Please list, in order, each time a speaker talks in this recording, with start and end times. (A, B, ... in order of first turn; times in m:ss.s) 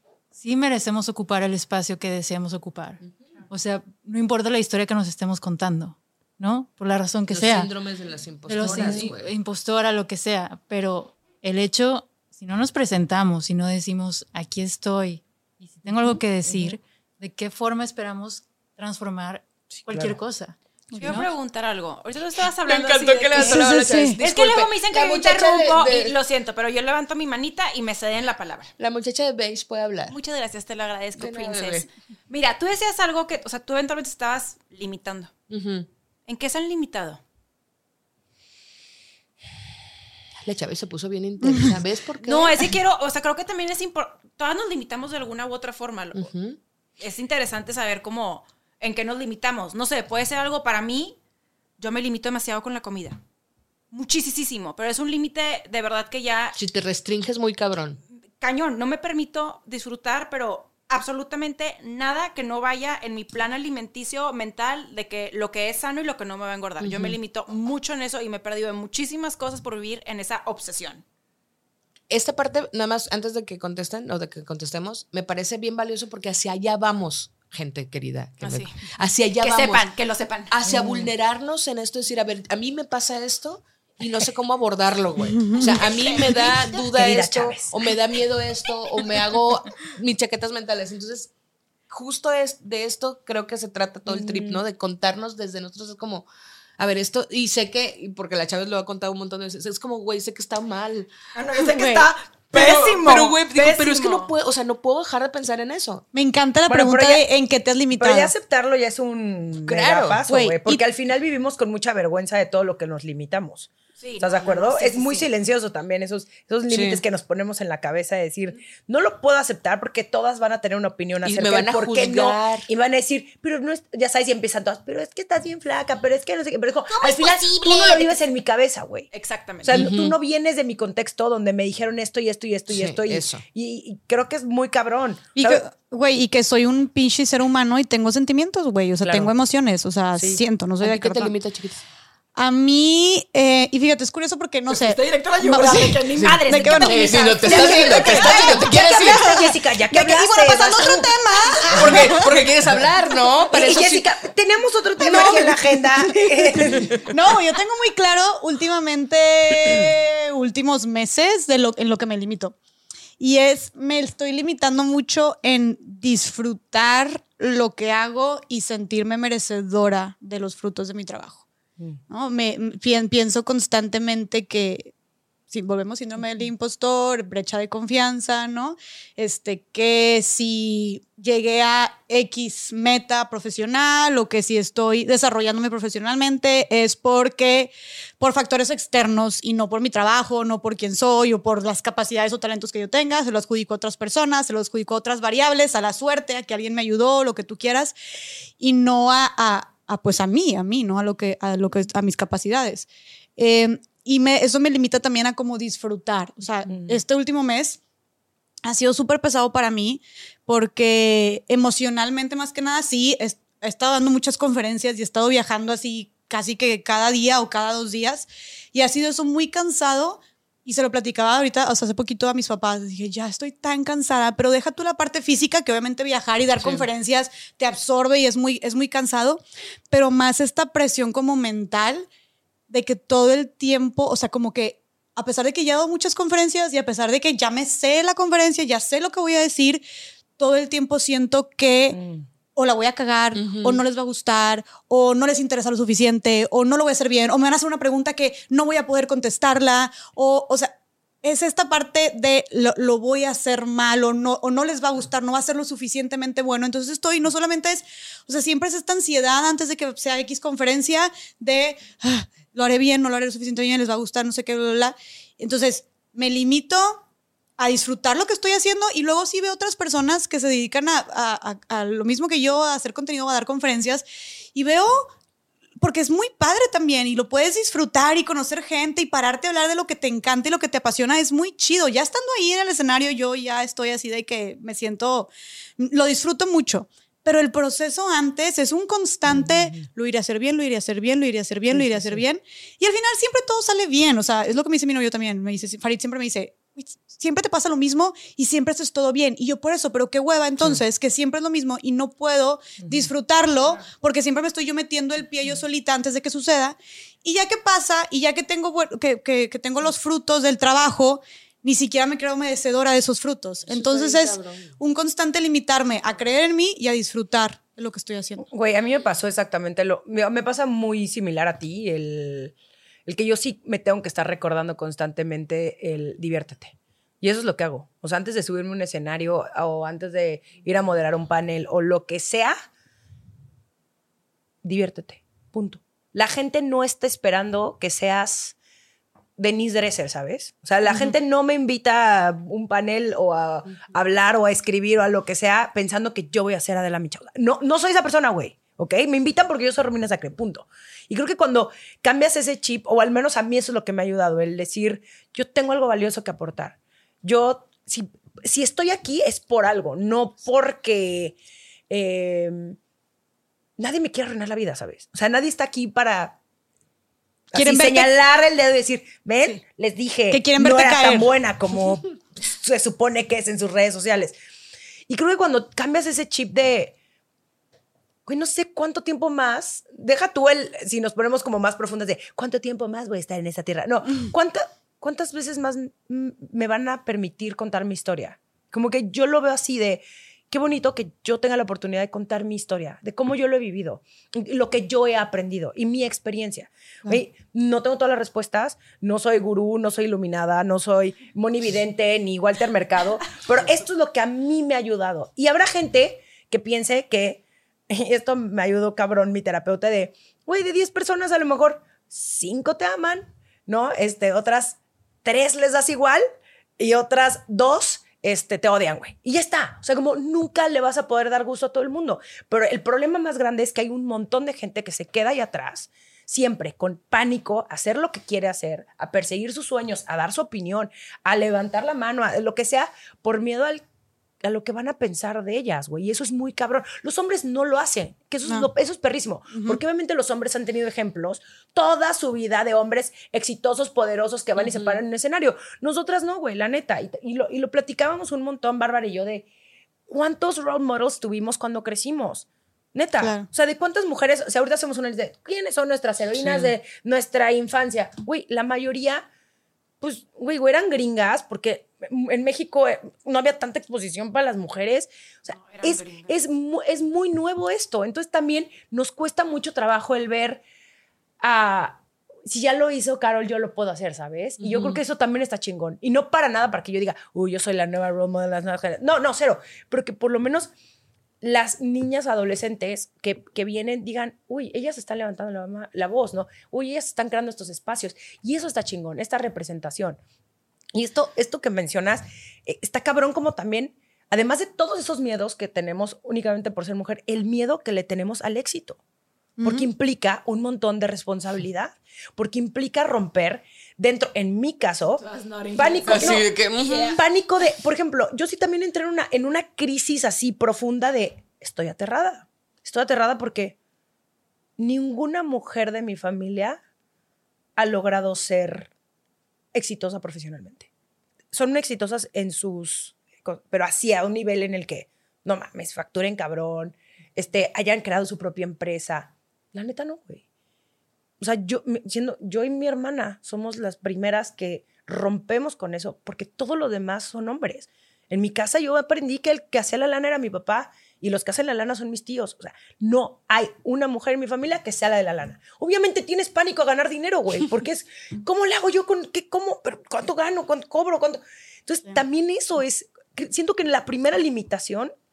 0:00.4-0:07.7 A
0:07.3-0:09.3 B
0:08.5-0:21.3 A
0:16.5-0:16.7 C
0:19.7-0:20.2 C
0:20.9-0:21.2 D
0:21.0-0:28.7 E
0:22.6-0:26.1 B
0:23.4-0:24.2 D
0:28.8-0:30.2 B
0:30.1-0:35.3 E
0:31.2-0:31.9 B
0:35.5-0:35.9 B
0:36.3-0:37.2 E
0:40.4-0:42.7 B
0:42.2-0:46.3 E
0:46.1-0:46.6 B
0:47.0-0:51.2 E
0:51.8-0:53.2 E
0:53.9-0:56.6 E
0:56.6-0:58.0 B
0:58.4-1:11.0 E
1:06.8-1:07.2 B
1:12.1-1:19.9 B
1:18.4-1:18.8 E
1:19.4-1:20.6 E
1:20.5-1:31.3 B
1:20.7-1:21.1 C
1:25.4-1:25.7 D
1:25.6-1:26.8 E
1:26.9-1:27.8 C
1:31.9-1:36.3 B
1:34.1-1:34.6 C
1:36.8-1:41.1 B
1:41.4-1:43.4 C
1:41.4-1:42.0 E
1:41.6-1:42.1 D
1:42.5-1:46.0 B
1:42.6-1:44.3 E
1:46.1-1:48.3 D
1:46.7-1:47.2 C
1:47.9-2:09.1 C
1:49.7-1:50.2 B
1:50.3-1:50.8 D
1:54.0-1:55.3 E
1:56.7-1:57.0 B
2:01.2-2:02.7 B
2:06.9-2:08.1 E
2:09.1-2:09.8 E
2:09.6-2:15.6 C
2:09.7-2:10.2 B
2:12.7-2:13.4 B
2:15.4-2:21.3 D
2:19.0-2:19.3 C
2:20.1-2:20.4 C
2:20.8-2:21.8 B
2:22.4-2:32.3 D
2:24.7-2:28.2 E
2:26.2-2:29.2 B
2:26.3-2:26.7 C
2:27.5-2:31.2 C
2:31.7-2:32.1 C
2:31.7-2:34.1 B
2:33.5-2:37.0 C
2:35.0-2:42.6 D
2:35.1-2:35.4 B
2:43.2-2:51.4 D
2:52.1-2:54.9 D
2:55.5-3:18.0 D
3:18.6-3:27.8 D
3:26.7-3:27.0 C
3:28.6-3:52.1 D
3:46.6-3:46.9 B
3:52.7-3:59.8 D
4:00.4-4:02.0 D
4:01.9-4:02.2 C
4:02.6-4:27.0 D
4:03.4-4:03.8 B
4:27.6-4:35.1 D
4:35.8-5:18.4 D
4:49.3-4:49.8 C
4:51.7-4:52.2 C
5:02.8-5:03.1 C
5:13.7-5:14.7 B
5:18.5-5:22.6 C
5:23.1-5:32.6 C
5:34.6-5:38.6 C
5:39.4-6:01.4 C
6:01.9-6:02.8 C
6:03.8-6:06.4 C
6:07.5-6:14.4 C
6:07.6-6:08.1 D
6:10.3-6:11.3 D
6:15.1-6:17.0 C
6:18.3-6:56.2 C
6:56.8-7:13.8 C
7:14.4-7:29.5 C
7:19.5-7:19.8 D
7:30.1-7:39.3 C
7:33.2-7:33.5 D
7:40.0-7:50.6 C
7:45.6-7:46.3 E
7:51.4-8:00.7 C
7:54.6-7:55.0 B
8:01.4-8:10.2 C
8:10.9-8:19.0 C
8:19.6-8:19.9 D
8:19.6-8:33.8 C
8:25.0-8:27.2 E
8:26.1-8:27.0 B
8:34.8-8:36.8 C
8:37.8-8:38.9 C
8:39.7-8:40.9 C
8:41.5-8:50.4 C
8:51.4-9:15.1 C